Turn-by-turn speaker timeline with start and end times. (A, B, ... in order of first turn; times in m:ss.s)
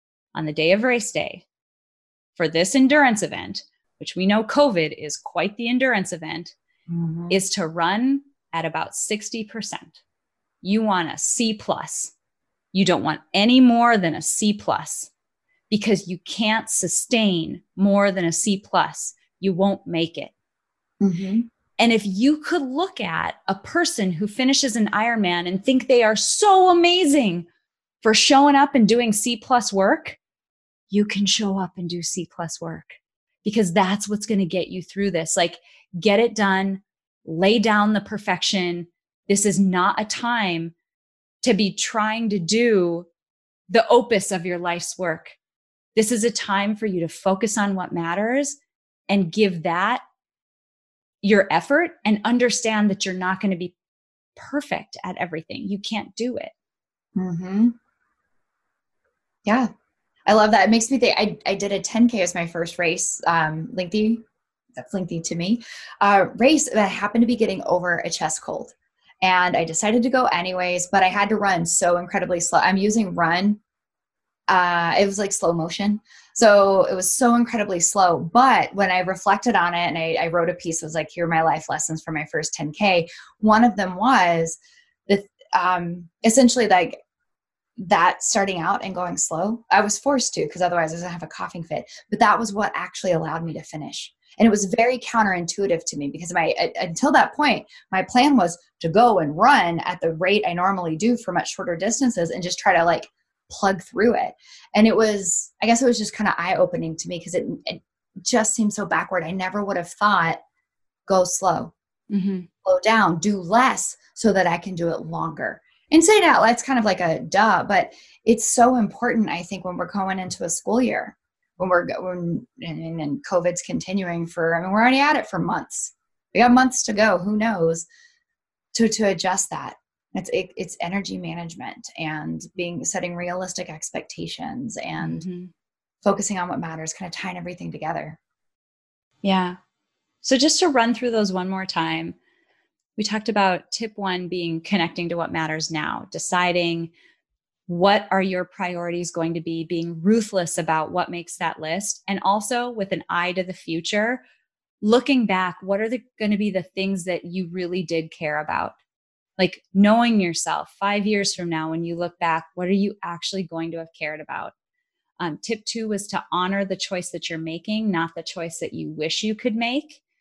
0:00.3-0:01.4 A
0:02.4-0:06.5 A
0:06.9-0:07.4 B
0:07.3-0:10.0 A
0:10.6-0:12.1 A
0:12.7-0:15.1 A
0:15.7-0:20.3 A
0:21.0-0:21.5 B
0:21.8-0:27.5 A
0:28.0-0:30.2 A
0:30.9-0:40.7 A
0:41.4-0:43.1 A
0:43.7-0:45.4 A
0:46.0-0:50.0 A
0:51.2-0:53.8 A
0:54.4-0:56.5 A
0:57.2-0:57.8 B
1:00.3-1:13.6 B
1:14.5-1:27.0 B
1:27.8-1:50.4 B
1:51.1-1:51.7 B
1:52.1-1:52.5 A
1:52.6-2:07.9 B
2:08.7-2:15.3 B
2:15.0-2:15.5 A
2:16.0-2:18.2 B
2:19.2-2:19.6 A
2:20.2-2:22.2 A
2:23.0-2:26.9 A
2:27.7-2:34.2 A
2:34.8-2:38.8 A
2:39.4-2:44.5 A
2:45.2-2:50.0 A